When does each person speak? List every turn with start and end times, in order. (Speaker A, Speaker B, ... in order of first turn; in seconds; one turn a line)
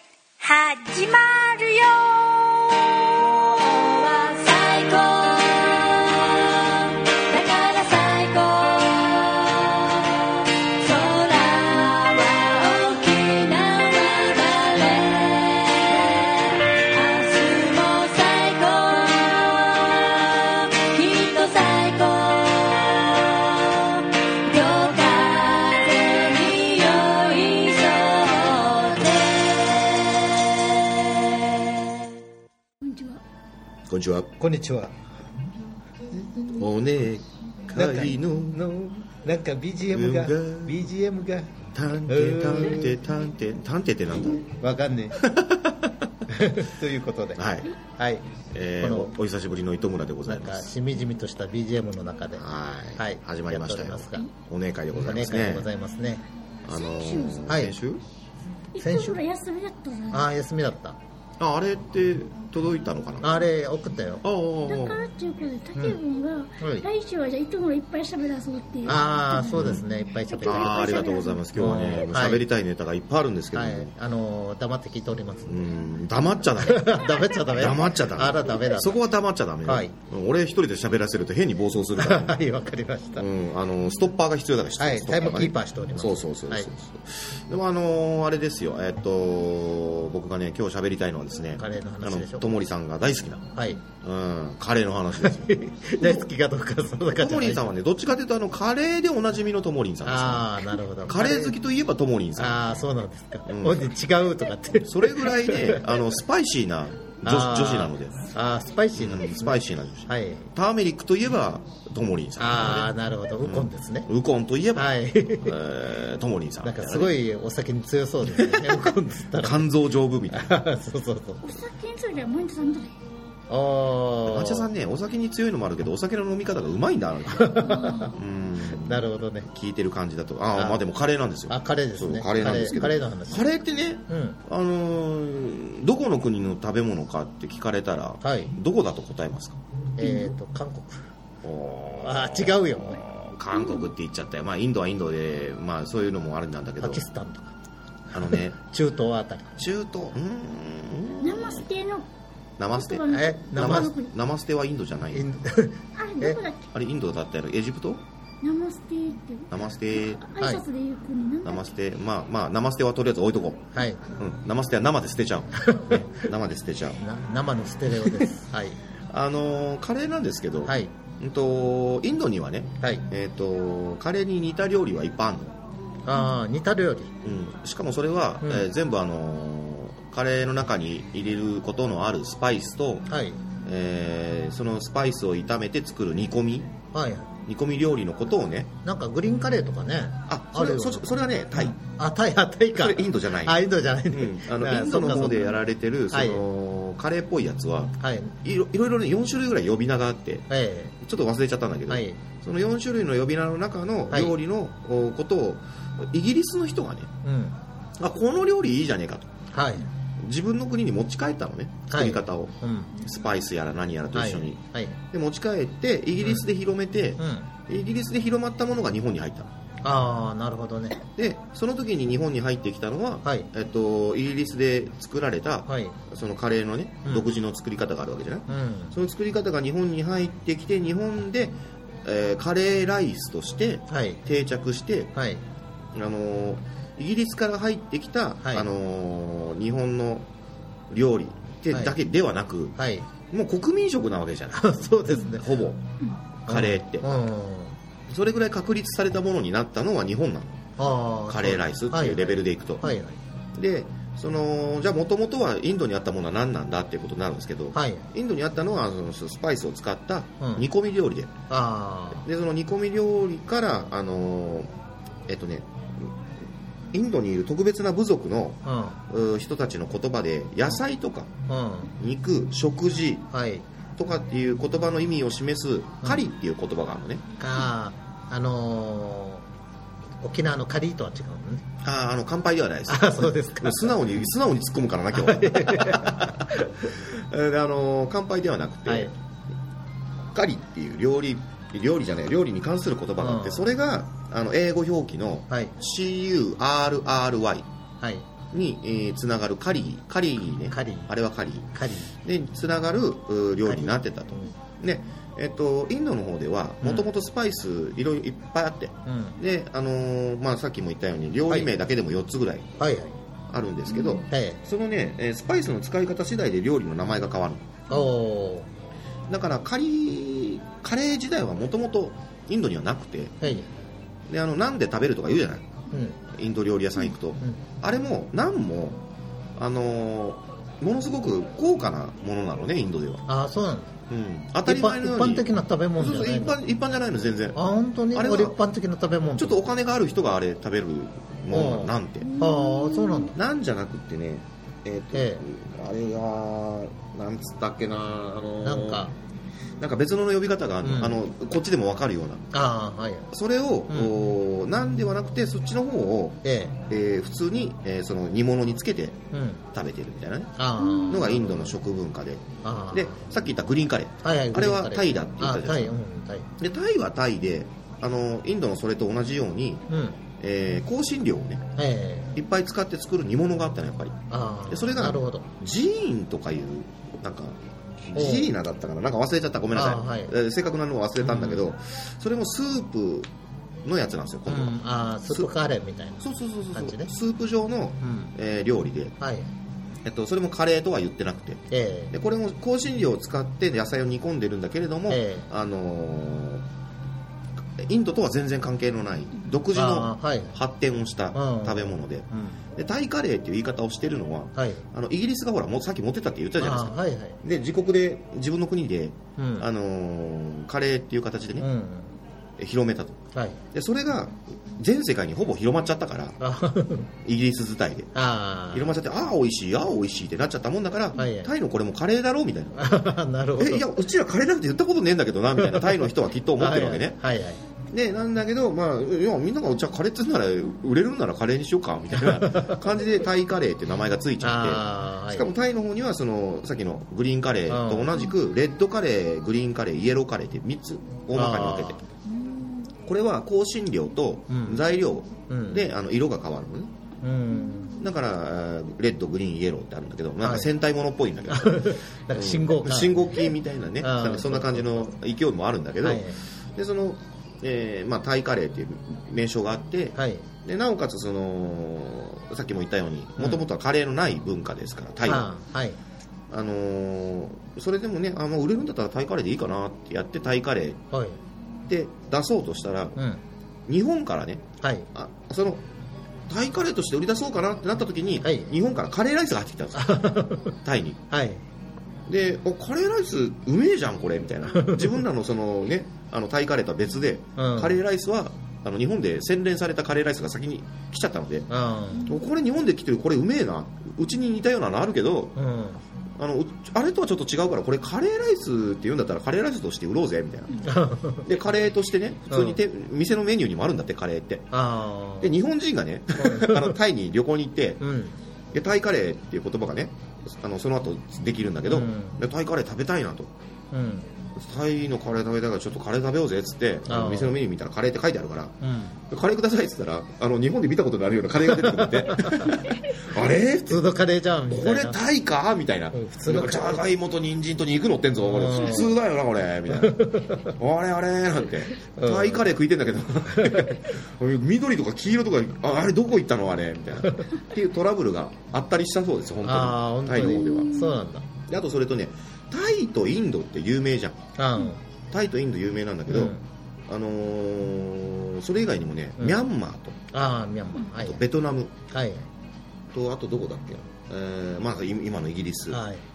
Speaker A: 0.4-31.7
Speaker B: 32.8-33.2
Speaker C: 33.9-34.3
Speaker D: 34.4-34.9
Speaker D: 36.1-36.6
Speaker C: 36.5-38.7
Speaker D: 37.7-41.5
Speaker C: 39.9-40.9
Speaker C: 41.7-44.5
Speaker D: 42.1-43.0
Speaker D: 44.5-45.2
Speaker C: 45.1-46.1
Speaker D: 46.3-47.4
Speaker C: 47.4-47.7
Speaker D: 47.9-48.2
Speaker C: 48.5-50.7
Speaker D: 48.8-49.1
Speaker D: 50.3-54.3
Speaker C: 52.4-55.7
Speaker D: 54.9-56.2
Speaker C: 56.7-58.0
Speaker B: 56.7-57.6
Speaker D: 57.5-57.8
Speaker B: 58.7-60.3
Speaker D: 58.8-59.2
Speaker D: 60.1-61.0
Speaker C: 61.4-63.5
Speaker D: 63.2-64.2
Speaker C: 64.2-65.1
Speaker B: 64.7-69.7
Speaker D: 68.8-70.9
Speaker C: 69.5-69.8
Speaker B: 70.3-72.2
Speaker C: 70.4-73.9
Speaker D: 71.5-72.5
Speaker D: 73.5-75.7
Speaker C: 75.5-82.4
Speaker D: 76.6-79.0
Speaker D: 79.7-79.9
Speaker D: 82.0-83.3
Speaker C: 83.2-93.4
Speaker D: 84.8-86.7
Speaker D: 91.6-92.6
Speaker D: 93.5-93.8
Speaker C: 94.0-96.3
Speaker D: 95.1-97.8
Speaker C: 97.1-102.8
Speaker D: 100.0-101.5
Speaker D: 102.4-106.0
Speaker C: 103.5-104.0
Speaker C: 104.8-108.3
Speaker D: 107.2-110.5
Speaker C: 108.9-117.2
Speaker D: 112.4-114.1
Speaker D: 114.8-115.6
Speaker D: 116.6-119.7
Speaker C: 118.2-120.7
Speaker D: 120.3-121.6
Speaker B: 121.4-123.0
Speaker D: 123.5-124.7
Speaker C: 124.3-127.6
Speaker D: 127.3-128.1
Speaker B: 127.6-128.1
Speaker C: 128.1-139.6
Speaker D: 128.7-129.5
Speaker D: 130.6-130.8
Speaker D: 131.5-133.5
Speaker D: 134.1-134.4
Speaker D: 138.2-138.6
Speaker D: 140.0-141.1
Speaker B: 140.0-140.3
Speaker C: 141.4-147.1
Speaker D: 142.0-143.0
Speaker B: 143.6-143.9
Speaker D: 146.8-147.5
Speaker C: 148.1-148.6
Speaker D: 148.2-149.6
Speaker C: 149.6-151.7
Speaker B: 151.2-152.1
Speaker C: 152.6-153.0
Speaker B: 152.7-154.1
Speaker D: 153.1-153.9
Speaker C: 153.6-155.3
Speaker D: 155.1-156.4
Speaker B: 156.0-156.7
Speaker C: 156.7-158.0
Speaker B: 158.4-161.7
Speaker C: 159.5-160.2
Speaker C: 161.4-163.6
Speaker D: 163.7-164.1
Speaker C: 164.2-167.0
Speaker D: 165.7-166.1
Speaker D: 167.0-168.8
Speaker C: 169.1-175.5
Speaker D: 170.7-170.9
Speaker D: 176.1-177.1
Speaker C: 177.2-183.1
Speaker D: 178.4-178.7
Speaker D: 183.1-183.4
Speaker C: 183.7-186.7
Speaker D: 186.9-187.3
Speaker C: 187.5-188.7
Speaker D: 188.8-195.6
Speaker C: 190.3-191.8
Speaker C: 192.7-200.5
Speaker D: 196.1-196.4
Speaker D: 198.0-198.3
Speaker D: 200.5-200.9
Speaker C: 201.0-207.1
Speaker D: 201.9-202.2
Speaker D: 204.1-204.4
Speaker D: 207.2-207.6
Speaker C: 208.0-209.3
Speaker D: 209.5-209.9
Speaker C: 210.2-219.5
Speaker D: 211.9-212.9
Speaker D: 214.1-215.0
Speaker D: 217.2-217.5
Speaker D: 219.8-221.0
Speaker C: 221.2-235.1
Speaker D: 223.2-223.5
Speaker D: 225.7-226.0
Speaker D: 228.5-228.9
Speaker D: 233.9-234.2
Speaker D: 235.1-235.4
Speaker C: 235.9-240.3
Speaker D: 238.4-238.7
Speaker C: 240.9-242.8
Speaker D: 241.7-242.0
Speaker D: 242.8-243.1
Speaker C: 243.3-245.8
Speaker D: 244.5-245.6
Speaker C: 246.4-247.1
Speaker D: 246.5-247.8
Speaker C: 248.1-250.6
Speaker D: 250.8-253.2
Speaker C: 251.3-252.9
Speaker C: 253.6-261.3
Speaker D: 257.7-258.1
Speaker D: 260.4-260.7
Speaker D: 261.5-262.2
Speaker C: 262.2-264.7
Speaker C: 265.3-266.1
Speaker C: 266.9-271.3
Speaker D: 268.6-269.0
Speaker D: 271.5-271.9
Speaker C: 272.0-273.3
Speaker D: 273.3-273.6
Speaker C: 274.0-277.2
Speaker D: 277.4-279.5
Speaker D: 280.2-281.6
Speaker C: 281.8-289.1
Speaker D: 282.9-284.0
Speaker D: 285.1-286.7
Speaker D: 288.9-289.1
Speaker C: 290.3-297.7
Speaker D: 293.2-293.7
Speaker D: 295.5-295.8
Speaker D: 298.0-298.3
Speaker C: 298.5-312.7
Speaker D: 300.7-301.1
Speaker D: 301.7-302.1
Speaker D: 303.6-304.5
Speaker D: 306.8-307.1
Speaker D: 309.1-309.4
Speaker D: 312.8-313.2
Speaker C: 313.5-317.7
Speaker B: 313.9-314.2
Speaker D: 314.3-314.6
Speaker D: 317.9-318.7
Speaker C: 319.3-323.4
Speaker D: 323.4-323.7
Speaker C: 324.3-325.7
Speaker D: 325.9-326.2
Speaker C: 326.3-329.0
Speaker C: 329.6-333.2
Speaker D: 333.3-333.9
Speaker C: 334.1-337.6
Speaker D: 334.7-336.6
Speaker D: 337.5-339.6
Speaker C: 338.1-338.6
Speaker C: 339.4-342.3
Speaker D: 341.5-343.4
Speaker B: 342.2-343.3
Speaker C: 343.3-349.1
Speaker D: 345.1-345.4
Speaker D: 348.6-349.1
Speaker C: 349.8-352.5
Speaker D: 350.8-351.2
Speaker D: 352.5-353.3
Speaker C: 353.3-359.2
Speaker D: 353.9-354.2
Speaker D: 356.4-356.8
Speaker D: 359.3-359.6
Speaker C: 359.7-366.0
Speaker D: 360.6-361.7
Speaker B: 360.8-361.2
Speaker D: 362.6-363.2
Speaker D: 364.2-366.5
Speaker C: 366.6-369.8
Speaker D: 369.9-370.2
Speaker C: 370.4-371.6
Speaker D: 371.8-372.4
Speaker C: 372.4-374.2
Speaker D: 374.3-375.5
Speaker C: 374.7-383.3
Speaker D: 378.1-378.5
Speaker D: 379.7-380.4
Speaker D: 381.2-381.6
Speaker C: 383.9-385.6
Speaker D: 384.5-387.1
Speaker C: 386.2-389.2
Speaker D: 388.0-388.3
Speaker D: 389.2-389.5
Speaker C: 390.1-396.6
Speaker D: 391.7-392.1
Speaker D: 395.1-395.5
Speaker C: 397.8-411.7
Speaker D: 399.7-400.6
Speaker D: 401.3-402.6
Speaker D: 404.6-404.9
Speaker D: 406.6-407.4
Speaker D: 409.4-409.7
Speaker D: 411.6-412.2
Speaker C: 412.6-413.2
Speaker D: 413.3-413.6
Speaker C: 413.7-416.4
Speaker D: 416.4-417.1
Speaker C: 417.2-418.1
Speaker D: 418.1-419.0
Speaker C: 418.7-427.2
Speaker D: 421.1-421.5
Speaker D: 422.8-423.9
Speaker D: 425.6-427.6
Speaker C: 427.9-442.0
Speaker D: 432.2-432.8
Speaker D: 434.4-435.5
Speaker D: 437.7-438.2
Speaker D: 441.3-442.0
Speaker B: 442.3-442.9
Speaker C: 443.1-446.9
Speaker D: 444.5-444.9
Speaker D: 445.5-445.9
Speaker D: 447.2-448.1
Speaker C: 448.0-465.5
Speaker D: 450.4-450.7
Speaker D: 451.5-455.1
Speaker D: 456.0-456.4
Speaker D: 460.2-460.5
Speaker D: 465.2-466.0
Speaker C: 466.5-471.0
Speaker D: 471.1-471.4
Speaker C: 471.9-473.2
Speaker D: 473.2-473.4
Speaker C: 473.9-475.8
Speaker D: 474.8-475.1
Speaker C: 476.5-481.2
Speaker D: 478.4-478.7
Speaker D: 479.9-480.8
Speaker D: 481.3-481.6
Speaker C: 482.3-491.7
Speaker D: 484.7-485.2
Speaker D: 487.6-488.0
Speaker D: 491.7-492.4
Speaker C: 492.2-495.6
Speaker D: 495.6-496.0
Speaker C: 496.4-500.9
Speaker D: 500.8-501.5
Speaker C: 501.4-504.7
Speaker D: 502.5-502.8
Speaker D: 504.7-505.6
Speaker C: 505.4-508.0
Speaker D: 506.4-507.0
Speaker D: 508.0-508.4
Speaker C: 508.7-513.5
Speaker D: 511.9-512.4
Speaker D: 513.9-514.3
Speaker C: 514.5-518.8
Speaker D: 517.1-517.6
Speaker D: 518.8-519.2
Speaker C: 519.3-524.1
Speaker D: 521.7-522.8
Speaker D: 523.4-525.2
Speaker C: 524.7-540.9
Speaker D: 526.1-527.1
Speaker D: 528.4-529.2
Speaker D: 529.9-530.8
Speaker D: 532.0-532.6
Speaker D: 533.6-534.0
Speaker D: 537.2-537.6
Speaker D: 539.6-541.5
Speaker B: 540.4-541.2
Speaker C: 541.7-544.4
Speaker D: 544.6-545.0
Speaker C: 545.3-546.6
Speaker D: 546.3-546.6
Speaker C: 547.1-550.2
Speaker D: 549.4-549.6
Speaker D: 550.3-551.4
Speaker C: 551.2-551.9
Speaker D: 552.1-552.5
Speaker C: 553.1-556.0
Speaker D: 555.9-556.2